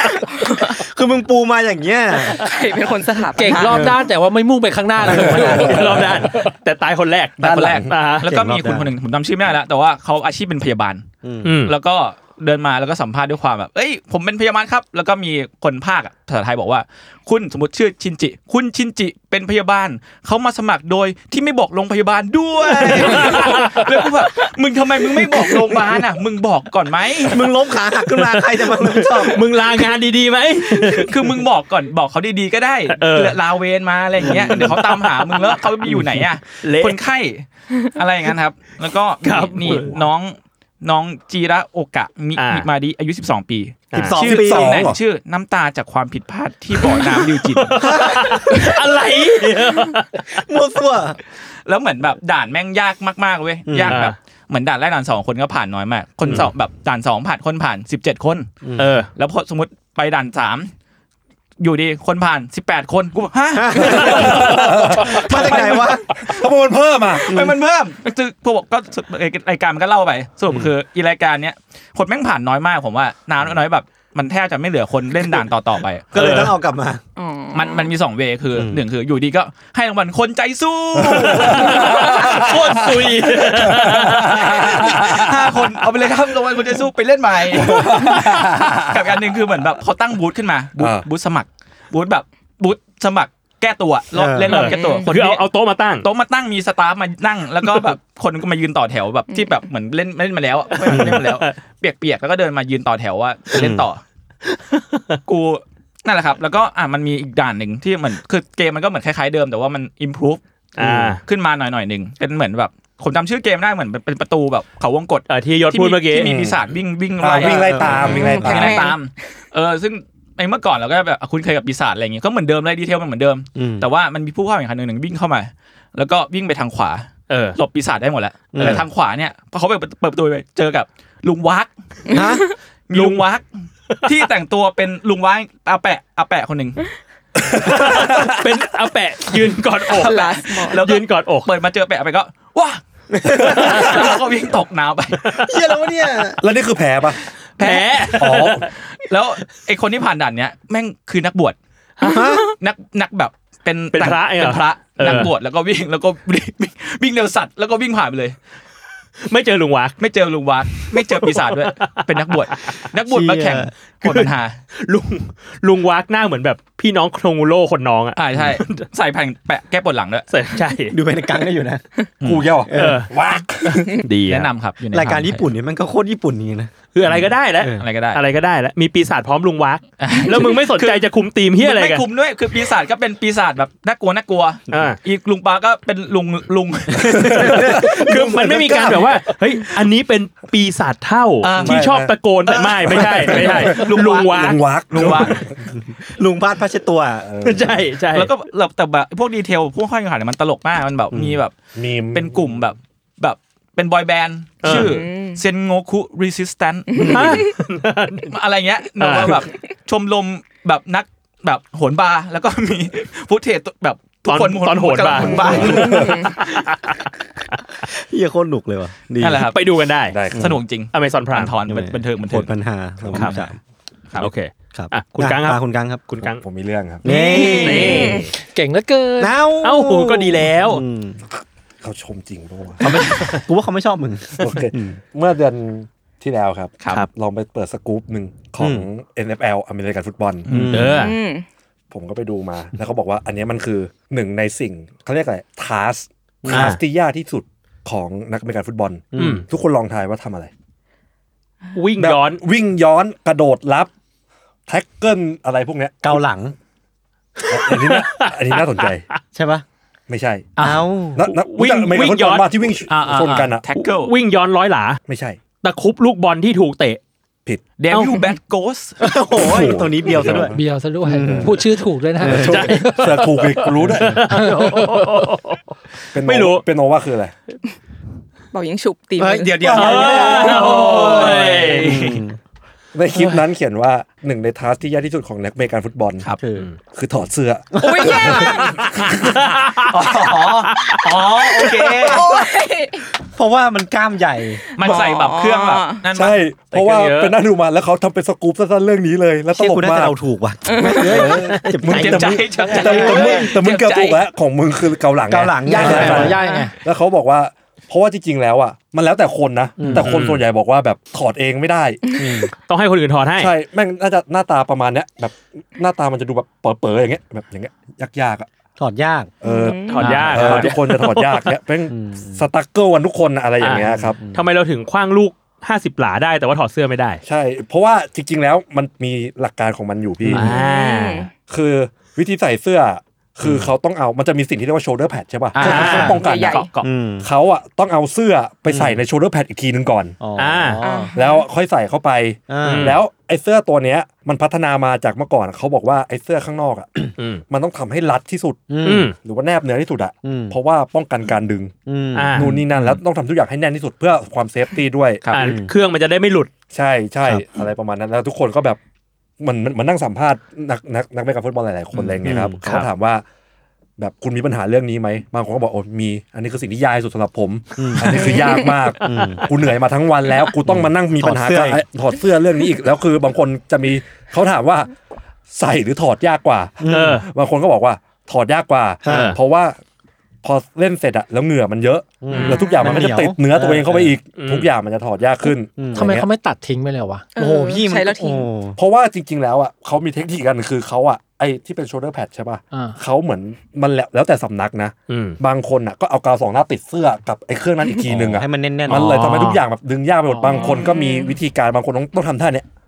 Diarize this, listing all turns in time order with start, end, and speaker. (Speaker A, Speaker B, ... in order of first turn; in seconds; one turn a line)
Speaker A: 0.3-0.8
Speaker B: 0.7-2.4
Speaker A: 2.3-3.9
Speaker C: 3.3-5.9
Speaker B: 3.7-3.9
Speaker D: 5.1-6.0
Speaker B: 5.1-5.6
Speaker E: 5.2-8.2
Speaker D: 7.4-7.9
Speaker F: 7.4-11.1
Speaker B: 8.2-8.9
Speaker B: 11.2-11.5
Speaker E: 11.4-11.7
Speaker F: 11.7-27.5
Speaker E: 22.8-23.9
Speaker B: 27.3-29.6
Speaker E: 28.1-31.2
Speaker F: 30.9-48.7
Speaker E: 32.9-33.4
Speaker B: 34.2-34.8
Speaker E: 34.2-37.0
Speaker E: 39.2-40.0
Speaker E: 42.4-42.7
Speaker B: 43.9-44.9
Speaker E: 43.9-44.2
Speaker D: 44.2-45.0
Speaker E: 46.8-50.4
Speaker B: 47.8-48.4
Speaker B: 50.3-51.2
Speaker F: 51.6-58.5
Speaker B: 53.7-54.0
Speaker E: 53.9-54.1
Speaker B: 58.6-59.0
Speaker E: 58.8-59.1
Speaker F: 59.1-60.7
Speaker F: 61.6-65.8
Speaker B: 63.5-66.1
Speaker D: 63.8-67.5
Speaker F: 67.2-76.4
Speaker B: 67.3-67.5
Speaker B: 76.1-77.0
Speaker E: 76.1-76.5
Speaker A: 77.2-77.9
Speaker F: 77.5-95.5
Speaker B: 78.5-78.8
Speaker D: 81.0-85.8
Speaker E: 81.4-84.5
Speaker D: 87.5-89.0
Speaker D: 90.8-91.0
Speaker B: 94.1-94.6
Speaker E: 94.5-96.1
Speaker A: 94.6-95.1
Speaker F: 96.0-104.0
Speaker E: 100.8-101.6
Speaker B: 100.9-101.2
Speaker B: 103.5-103.8
Speaker E: 104.5-105.2
Speaker F: 105.2-110.4
Speaker E: 110.8-111.2
Speaker B: 110.8-111.2
Speaker F: 111.2-131.7
Speaker E: 115.3-116.3
Speaker D: 116.2-116.6
Speaker D: 117.2-118.9
Speaker B: 117.7-118.2
Speaker A: 117.8-119.0
Speaker B: 123.5-123.9
Speaker E: 127.3-127.6
Speaker B: 128.5-128.8
Speaker A: 132.1-132.5
Speaker B: 132.1-132.4
Speaker F: 132.9-133.5
Speaker E: 132.9-133.2
Speaker F: 134.0-136.8
Speaker D: 137.4-138.4
Speaker E: 137.6-140.1
Speaker A: 139.9-140.9
Speaker F: 140.0-145.4
Speaker E: 140.7-141.5
Speaker B: 143.1-143.9
Speaker D: 143.5-144.1
Speaker B: 145.4-146.4
Speaker D: 146.4-147.2
Speaker F: 147.6-148.2
Speaker E: 147.6-148.7
Speaker D: 148.1-148.7
Speaker F: 148.9-151.6
Speaker E: 152.0-152.3
Speaker B: 152.0-152.4
Speaker F: 152.6-158.4
Speaker E: 153.9-155.3
Speaker E: 159.2-160.0
Speaker F: 160.0-164.6
Speaker E: 160.8-162.8
Speaker B: 163.1-163.7
Speaker E: 164.0-168.8
Speaker F: 168.2-170.3
Speaker E: 170.3-170.9
Speaker B: 170.9-171.8
Speaker F: 172.2-172.5
Speaker D: 172.2-174.0
Speaker B: 172.7-173.0
Speaker E: 172.7-173.1
Speaker E: 174.0-174.5
Speaker F: 174.3-175.5
Speaker B: 174.9-177.8
Speaker E: 176.9-182.1
Speaker F: 177.8-178.2
Speaker F: 180.0-181.1
Speaker F: 181.6-187.7
Speaker E: 184.7-185.0
Speaker D: 187.0-189.3
Speaker B: 187.2-187.9
Speaker E: 187.4-194.6
Speaker F: 191.4-191.8
Speaker D: 191.5-192.1
Speaker D: 192.8-195.6
Speaker F: 192.9-195.4
Speaker B: 194.9-197.8
Speaker D: 197.2-197.8
Speaker E: 197.4-198.3
Speaker F: 198.1-201.6
Speaker B: 201.1-201.4
Speaker D: 201.8-202.6
Speaker F: 202.1-207.4
Speaker E: 204.6-204.9
Speaker A: 204.7-205.4
Speaker A: 206.9-207.5
Speaker E: 207.0-208.3
Speaker F: 208.3-216.1
Speaker E: 209.0-209.4
Speaker E: 214.3-217.1
Speaker B: 215.2-215.9
Speaker D: 215.3-216.2
Speaker A: 215.8-216.3
Speaker B: 217.8-219.5
Speaker F: 219.2-219.6
Speaker E: 219.5-220.2
Speaker D: 220.1-220.6
Speaker B: 220.3-220.6
Speaker F: 220.3-222.5
Speaker E: 220.9-221.6
Speaker B: 221.7-223.6
Speaker D: 223.0-223.3
Speaker E: 223.1-223.4
Speaker E: 224.2-226.4
Speaker B: 224.2-226.1
Speaker D: 226.4-227.1
Speaker B: 227.0-228.2
Speaker E: 227.0-228.3
Speaker A: 227.4-228.3
Speaker C: 228.3-229.3
Speaker B: 229.2-231.2
Speaker E: 229.6-230.8
Speaker D: 231.4-232.9
Speaker B: 232.8-235.0
Speaker E: 233.1-233.4
Speaker D: 234.4-240.7
Speaker B: 238.6-238.9
Speaker F: 240.4-240.9
Speaker B: 240.5-241.1
Speaker E: 240.7-241.2
Speaker A: 240.9-241.4
Speaker D: 241.9-250.5
Speaker B: 246.4-246.8
Speaker E: 246.5-246.8
Speaker B: 249.1-249.4
Speaker E: 249.2-249.4
Speaker E: 251.8-252.4
Speaker D: 252.0-253.9
Speaker D: 254.7-256.2
Speaker B: 256.0-256.5
Speaker E: 257.4-259.2
Speaker D: 257.4-259.1
Speaker B: 259.3-259.6
Speaker D: 260.1-260.5
Speaker F: 260.6-260.8
Speaker B: 260.6-261.3
Speaker D: 261.1-263.6
Speaker E: 261.3-262.5
Speaker F: 262.9-264.1
Speaker E: 263.7-265.0
Speaker D: 265.1-265.4
Speaker E: 265.6-267.0
Speaker F: 267.8-268.9
Speaker E: 267.9-268.2
Speaker B: 269.0-270.5
Speaker D: 269.3-271.6
Speaker C: 270.4-273.3
Speaker B: 271.1-271.6
Speaker B: 272.2-272.7
Speaker D: 272.3-274.3
Speaker E: 272.4-276.6
Speaker B: 273.8-274.2
Speaker C: 274.3-275.2
Speaker D: 276.1-277.3
Speaker A: 278.5-280.1
Speaker B: 279.2-282.4
Speaker D: 279.7-282.0
Speaker E: 279.7-282.1
Speaker F: 280.4-282.2
Speaker D: 282.9-286.3
Speaker E: 286.4-286.8
Speaker D: 286.9-289.5
Speaker B: 287.8-288.4
Speaker A: 287.8-288.9
Speaker E: 289.5-289.9
Speaker F: 289.8-292.3
Speaker E: 290.7-291.0
Speaker B: 291.6-292.3
Speaker A: 292.0-293.0
Speaker B: 293.3-294.6
Speaker A: 294.7-296.0
Speaker F: 294.8-296.4
Speaker D: 296.1-300.1
Speaker E: 296.7-297.4
Speaker B: 299.5-303.4
Speaker A: 300.6-301.4
Speaker D: 301.0-312.0
Speaker F: 301.8-304.2
Speaker C: 302.6-303.4
Speaker B: 305.3-306.4
Speaker C: 305.6-306.8
Speaker A: 306.4-306.7
Speaker B: 309.8-310.2
Speaker E: 310.0-310.4
Speaker A: 312.1-312.5
Speaker B: 312.2-312.5
Speaker E: 312.7-313.5
Speaker D: 313.4-318.5
Speaker B: 318.8-319.3
Speaker A: 319.4-320.3
Speaker D: 319.4-324.2
Speaker E: 319.9-321.5
Speaker F: 320.0-320.7
Speaker B: 321.9-322.4
Speaker E: 323.6-327.2
Speaker B: 323.8-324.4
Speaker D: 327.2-330.5
Speaker E: 330.3-331.3
Speaker A: 330.4-331.3
Speaker D: 331.5-336.6
Speaker B: 333.4-333.7
Speaker F: 335.5-336.9
Speaker E: 335.6-336.1
Speaker A: 335.7-336.7
Speaker B: 336.8-337.3
Speaker D: 337.2-340.2
Speaker B: 338.7-339.0
Speaker B: 340.2-341.1
Speaker E: 340.4-340.8
Speaker A: 340.8-341.5
Speaker D: 341.1-351.7
Speaker B: 342.5-343.0
Speaker E: 342.6-343.0
Speaker B: 348.7-349.1
Speaker E: 348.8-349.1
Speaker B: 350.2-350.6
Speaker B: 351.9-352.9
Speaker E: 352.1-352.6
Speaker D: 352.3-355.2
Speaker E: 355.3-356.5
Speaker B: 355.4-355.7
Speaker D: 356.7-358.8
Speaker D: 359.4-363.2
Speaker B: 362.2-362.6
Speaker E: 362.6-362.9
Speaker D: 364.0-374.9
Speaker B: 367.8-368.4
Speaker A: 368.1-368.8
Speaker B: 369.0-369.4
Speaker B: 370.7-371.8
Speaker D: 375.5-379.8
Speaker B: 376.8-377.2
Speaker E: 376.9-377.2
Speaker B: 379.1-379.4
Speaker E: 379.1-379.4
Speaker D: 380.4-386.3
Speaker B: 382.2-384.1
Speaker A: 382.3-383.1
Speaker E: 384.4-384.7
Speaker B: 385.8-386.1
Speaker C: 385.9-387.3
Speaker A: 387.3-388.5
Speaker B: 387.4-388.8
Speaker D: 388.8-402.6
Speaker C: 392.7-393.0
Speaker E: 395.1-395.4
Speaker B: 398.1-399.6
Speaker E: 398.9-399.6
Speaker C: 400.3-400.6
Speaker A: 400.4-401.4